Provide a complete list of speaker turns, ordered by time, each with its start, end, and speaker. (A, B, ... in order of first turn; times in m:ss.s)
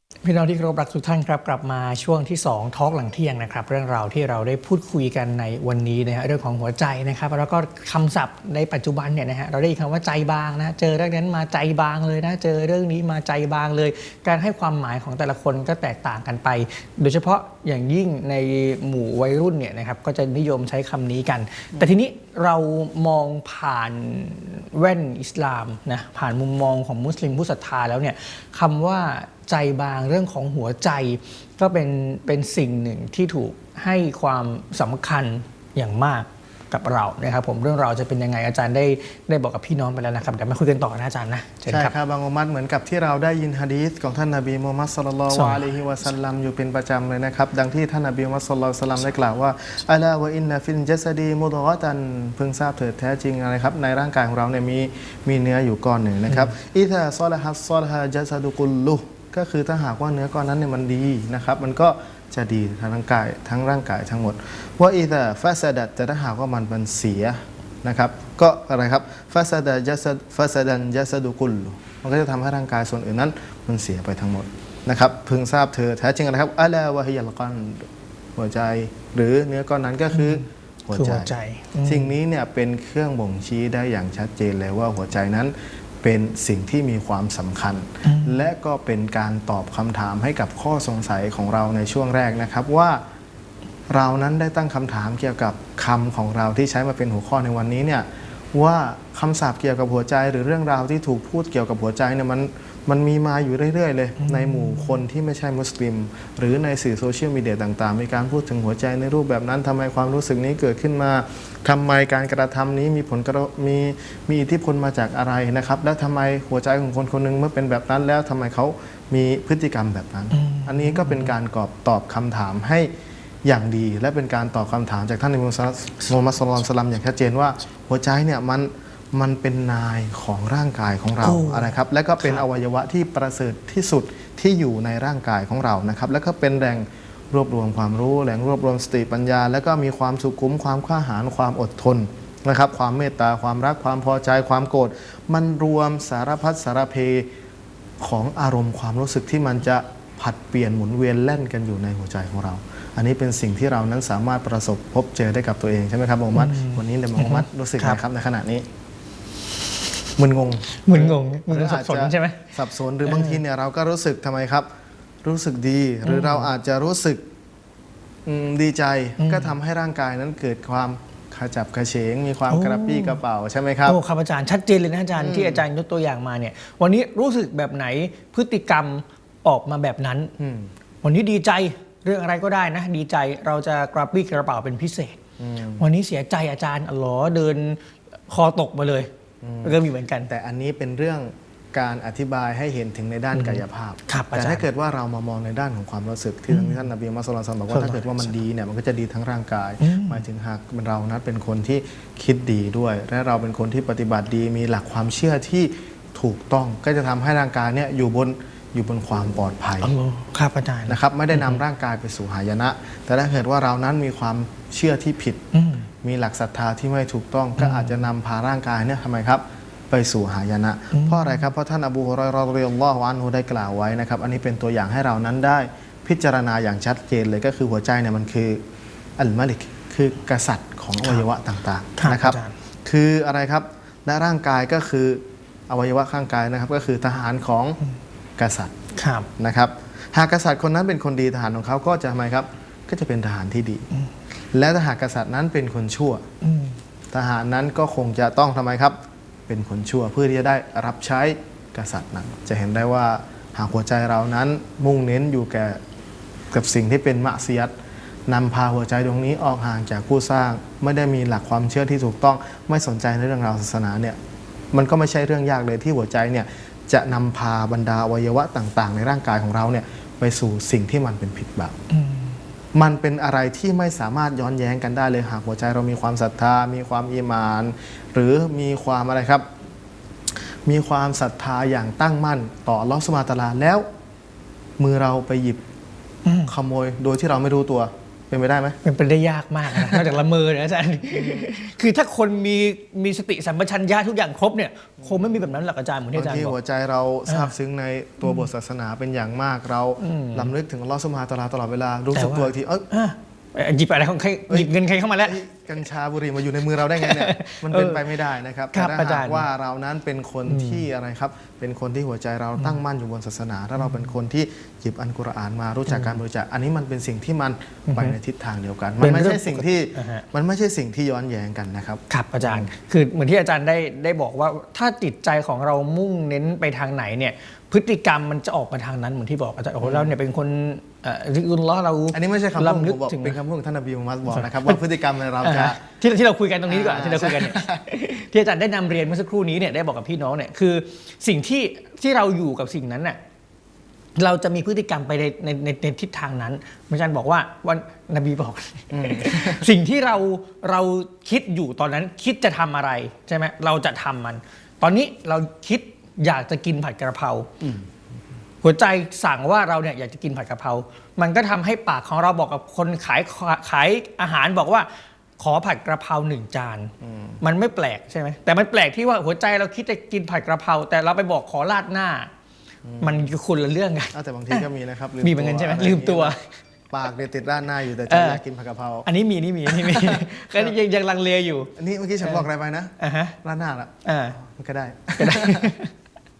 0:00.2-0:41.9 A
0:41.7-1:21.3 B
0:45.3-0:45.7 A
1:20.1-1:22.1 A
1:21.8-1:33.0 B
1:28.0-1:28.4 A
1:33.9-2:02.9 B
1:44.2-1:45.0 A
2:00.3-2:01.3 A
2:03.4-2:27.3 B
2:11.2-2:12.4 A
2:28.0-2:38.7 B
2:36.3-2:38.0 A
2:40.2-2:44.7 B
2:40.8-2:42.5 A
2:43.0-2:43.4 A
2:45.2-2:47.2 B
2:46.0-2:46.5 A
2:48.2-2:54.0 B
2:49.2-2:49.5 A
2:52.5-2:53.2 A
2:53.8-3:00.3 A
2:55.2-2:55.6 B
3:00.4-3:00.7 B
3:01.0-3:05.2 A
3:05.4-3:05.8 B
3:05.8-3:09.1 A
3:09.4-3:29.9 B
3:09.6-3:10.3 A
3:13.3-3:14.6 A
3:16.5-3:16.8 A
3:17.7-3:18.3 A
3:19.8-3:20.2 A
3:29.8-3:31.6 A
3:30.9-3:35.4 B
3:35.5-3:35.9 A
3:36.0-3:48.6 B
3:37.6-3:37.9 A
3:40.9-3:41.4 A
3:49.2-3:57.8 B
3:52.0-3:52.5 A
3:58.4-3:58.7 B
3:58.9-3:59.3 A
3:59.4-4:03.9 B
4:04.5-4:06.2 B
4:06.4-4:06.8 A
4:07.1-4:15.8 B
4:16.5-4:17.7 B
4:18.3-4:24.2 B
4:24.7-4:31.8 B
4:31.9-4:32.4 A
4:32.7-4:39.4 B
4:40.6-4:43.8 B
4:44.8-4:45.6 B
4:46.2-4:46.5 A
4:46.5-4:48.8 B
4:48.8-4:56.6 A
4:49.7-4:50.1 B
4:51.1-4:51.5 B
4:55.0-4:55.4 B
4:56.1-5:02.9 B
4:57.3-4:57.5 A
5:00.0-5:00.5 A
5:02.1-5:05.4 A
5:04.5-5:22.7 B
5:07.0-5:08.1 A
5:08.7-5:09.4 A
5:10.5-5:10.8 A
5:15.9-5:16.2 A
5:17.9-5:18.2 A
5:19.0-5:20.2 A
5:22.1-5:33.4 A
5:29.8-5:30.1 B
5:32.1-5:35.8 B
5:34.3-5:34.8 A
5:35.4-5:43.2 A
5:36.7-5:37.8 B
5:44.2-5:57.5 A
5:48.9-5:49.7 B
5:57.6-5:57.9 B
5:58.6-6:04.9 A
6:05.4-6:12.3 A
6:07.0-6:07.4 B
6:12.8-6:13.3 B
6:13.0-6:14.6 A
6:14.1-6:16.4 B
6:15.2-6:16.4 A
6:16.9-6:19.1 B
6:18.1-6:18.4 A
6:19.0-6:21.7 A
6:19.6-6:20.7 B
6:21.8-6:25.8 B
6:23.0-6:23.4 A
6:24.0-6:24.4 A
6:25.2-6:25.9 A